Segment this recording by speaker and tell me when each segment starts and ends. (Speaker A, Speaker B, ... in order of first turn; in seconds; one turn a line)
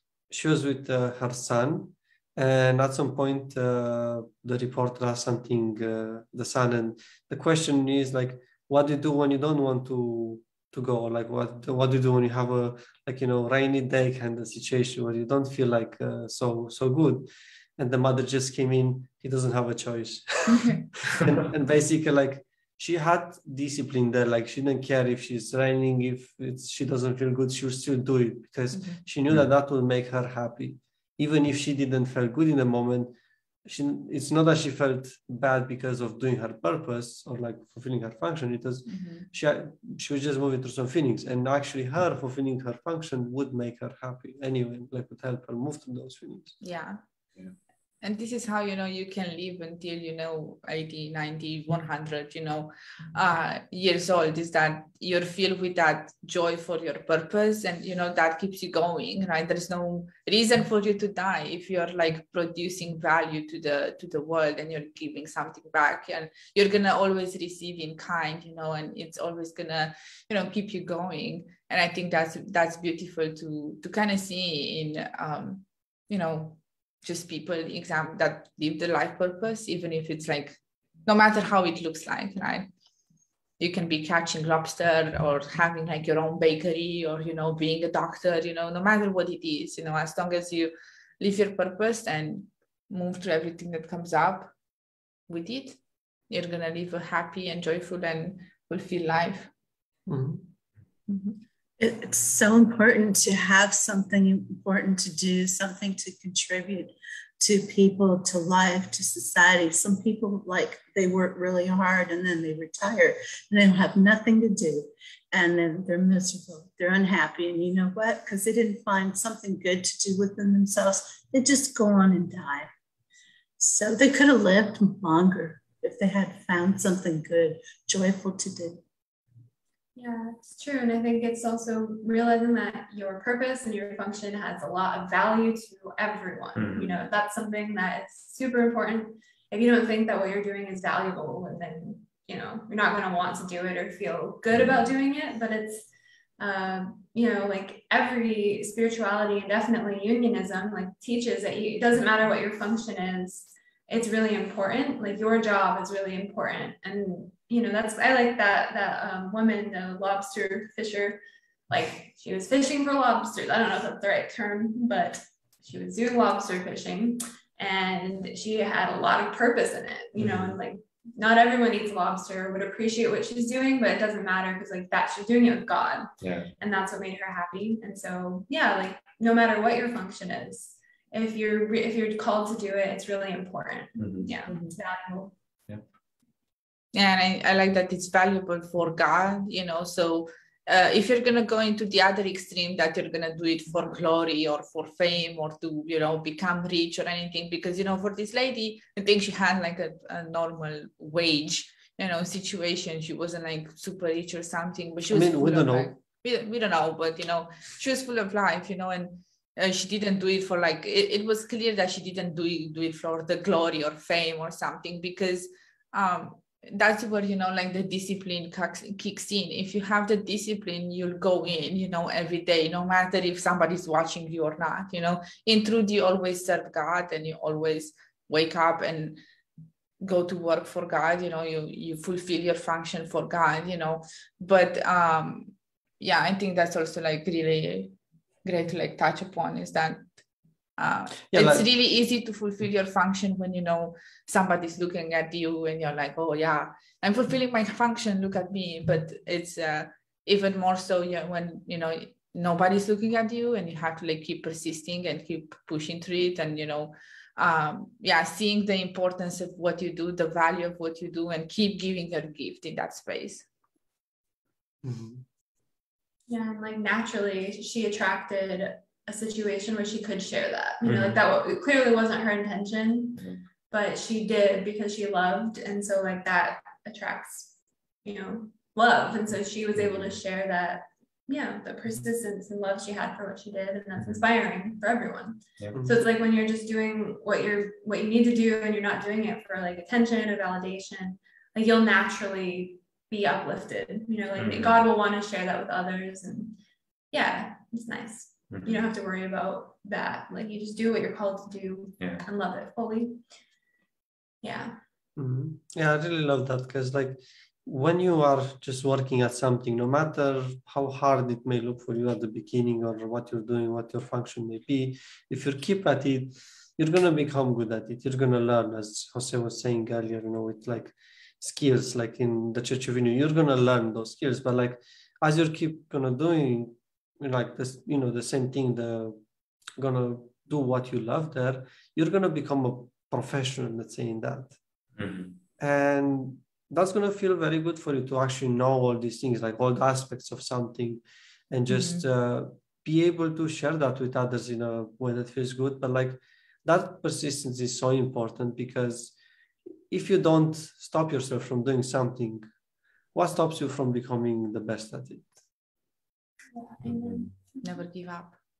Speaker A: 0.3-46.5
Speaker B: 20.5-20.8
Speaker B: 28.7-29.0
Speaker B: 38.9-39.3
Speaker B: 46.6-47.0
Speaker B: 48.0-82.7
Speaker B: 83.6-94.5
Speaker B: 95.3-99.5
Speaker A: 100.1-100.5
Speaker B: 101.1-101.4
Speaker C: 101.8-122.7
Speaker C: 123.6-128.8
Speaker D: 129.9-145.9
Speaker E: 136.5-136.9
Speaker E: 144.5-144.9
Speaker D: 146.4-185.3
Speaker E: 170.2-170.6
Speaker E: 176.2-176.5
Speaker E: 184.0-184.4
Speaker B: 184.5-184.8
Speaker B: 186.9-229.2
Speaker A: 205.1-205.9
Speaker B: 230.0-240.1
Speaker B: 240.8-263.4
Speaker A: 241.3-241.7
Speaker A: 264.8-265.2
Speaker D: 266.3-277.5
Speaker E: 270.8-271.2
Speaker D: 278.0-296.6
Speaker E: 279.7-280.2
Speaker E: 284.0-284.2
Speaker E: 294.4-294.8
Speaker D: 297.1-303.2
Speaker E: 298.5-298.9
Speaker E: 302.0-302.2
Speaker D: 304.4-304.8
Speaker A: 305.2-329.2
Speaker A: 329.8-334.6
Speaker E: 335.0-335.4
Speaker A: 335.6-349.1
Speaker B: 341.7-342.1
Speaker A: 349.9-352.5
Speaker A: 353.1-355.3
Speaker D: 356.5-357.6
Speaker E: 356.8-357.3
Speaker B: 357.6-358.4